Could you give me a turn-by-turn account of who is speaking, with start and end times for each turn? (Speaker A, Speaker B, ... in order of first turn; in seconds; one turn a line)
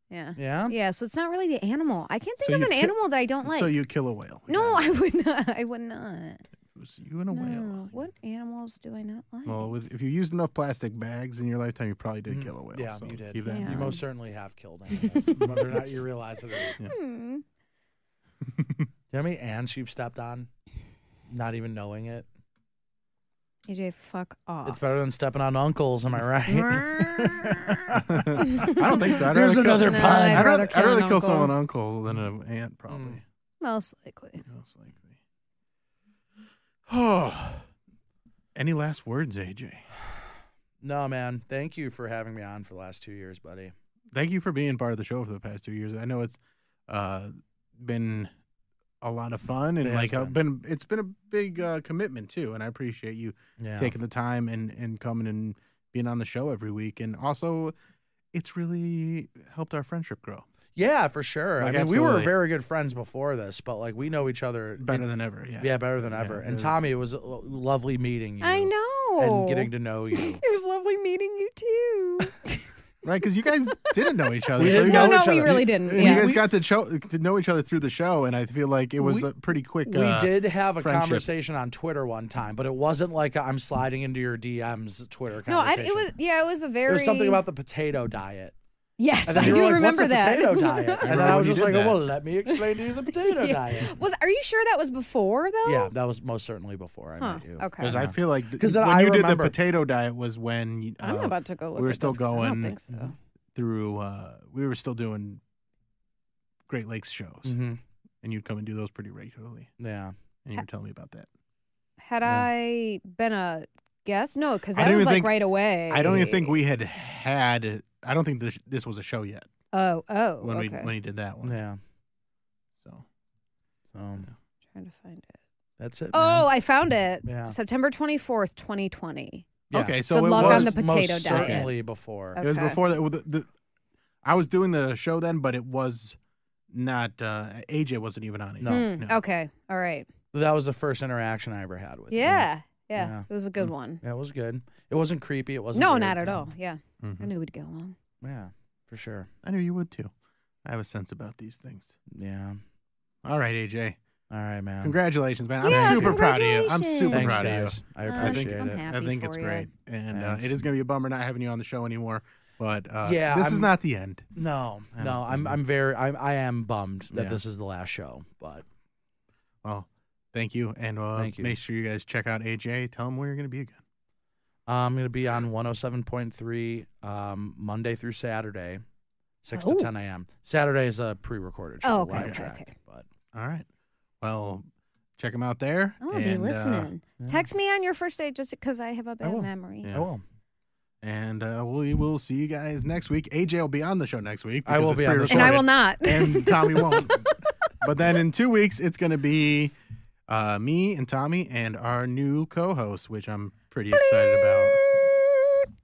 Speaker A: 0.1-3.7
Speaker B: 0.3-0.8
Speaker C: 2.4-5.0
Speaker A: 4.5-6.4
Speaker C: 6.7-7.9
Speaker A: 7.3-9.7
Speaker C: 9.4-14.0
Speaker B: 12.3-16.8
Speaker A: 13.4-14.0
Speaker A: 14.9-15.7
Speaker C: 15.3-15.9
Speaker A: 16.6-17.4
Speaker C: 18.6-18.9
Speaker B: 19.1-20.5
Speaker B: 21.3-22.3
Speaker A: 23.7-24.9
Speaker B: 24.6-30.6
Speaker C: 26.5-33.2
Speaker A: 28.5-28.8
Speaker A: 29.7-31.5
Speaker B: 32.9-33.2
Speaker A: 33.6-34.4
Speaker C: 34.4-35.2
Speaker C: 36.9-37.6
Speaker C: 38.5-39.9
Speaker B: 40.8-43.7
Speaker C: 44.1-48.3
Speaker C: 49.0-57.7
Speaker B: 49.8-50.4
Speaker B: 53.6-53.9
Speaker C: 58.3-60.5
Speaker B: 60.8-70.4
Speaker C: 61.6-62.3
Speaker C: 64.8-66.8
Speaker A: 68.4-72.7
Speaker C: 73.0-81.3
Speaker A: 74.5-76.3
Speaker B: 74.6-76.4
Speaker B: 79.0-79.3
Speaker B: 79.8-86.1
Speaker A: 85.5-87.4
Speaker B: 86.9-88.5
Speaker A: 89.0-91.7
Speaker B: 89.2-93.9
Speaker C: 89.3-89.8
Speaker C: 91.0-92.0
Speaker A: 92.5-95.9
Speaker B: 95.6-99.6
Speaker A: 97.2-98.0
Speaker C: 97.8-102.8
Speaker A: 101.0-103.1
Speaker C: 103.5-105.4
Speaker C: 106.7-107.5
Speaker B: 107.4-107.8
Speaker C: 108.2-109.7
Speaker B: 109.8-110.1
Speaker C: 110.4-111.3
Speaker A: 112.0-116.6
Speaker C: 114.7-119.5
Speaker A: 119.7-120.9
Speaker C: 120.4-121.6
Speaker B: 121.4-121.8
Speaker C: 122.8-123.0
Speaker B: 123.9-124.3
Speaker A: 124.7-125.4
Speaker B: 125.8-126.5
Speaker A: 126.1-131.7
Speaker B: 127.2-127.6
Speaker C: 129.7-131.7
Speaker B: 129.7-132.4
Speaker A: 132.3-132.8
Speaker C: 132.4-133.5
Speaker C: 134.2-136.2
Speaker C: 136.7-139.2
Speaker B: 138.6-138.9
Speaker A: 138.7-140.1
Speaker B: 140.3-143.3
Speaker A: 142.1-144.0
Speaker B: 144.0-146.4
Speaker A: 145.7-147.9
Speaker C: 147.0-147.3
Speaker B: 148.2-149.3
Speaker C: 149.4-150.1
Speaker C: 150.6-152.0
Speaker B: 152.1-152.6
Speaker C: 153.2-154.0
Speaker B: 154.3-154.9
Speaker C: 154.8-164.3
Speaker A: 155.6-159.7
Speaker B: 155.6-156.2
Speaker B: 157.1-158.9
Speaker B: 160.1-160.6
Speaker B: 163.0-163.7
Speaker B: 164.3-168.6
Speaker C: 164.9-165.6
Speaker C: 167.1-167.4
Speaker C: 169.6-173.8
Speaker B: 171.2-171.6
Speaker B: 174.7-178.8
Speaker B: 179.4-183.1
Speaker A: 179.5-179.9
Speaker A: 181.8-182.7
Speaker C: 182.1-182.4
Speaker C: 183.3-183.7
Speaker C: 184.2-186.9
Speaker A: 186.0-189.9
Speaker B: 187.2-187.5
Speaker B: 189.2-190.2
Speaker C: 191.0-199.7
Speaker B: 194.6-195.6
Speaker A: 195.3-197.4
Speaker C: 200.3-204.9
Speaker A: 203.9-205.6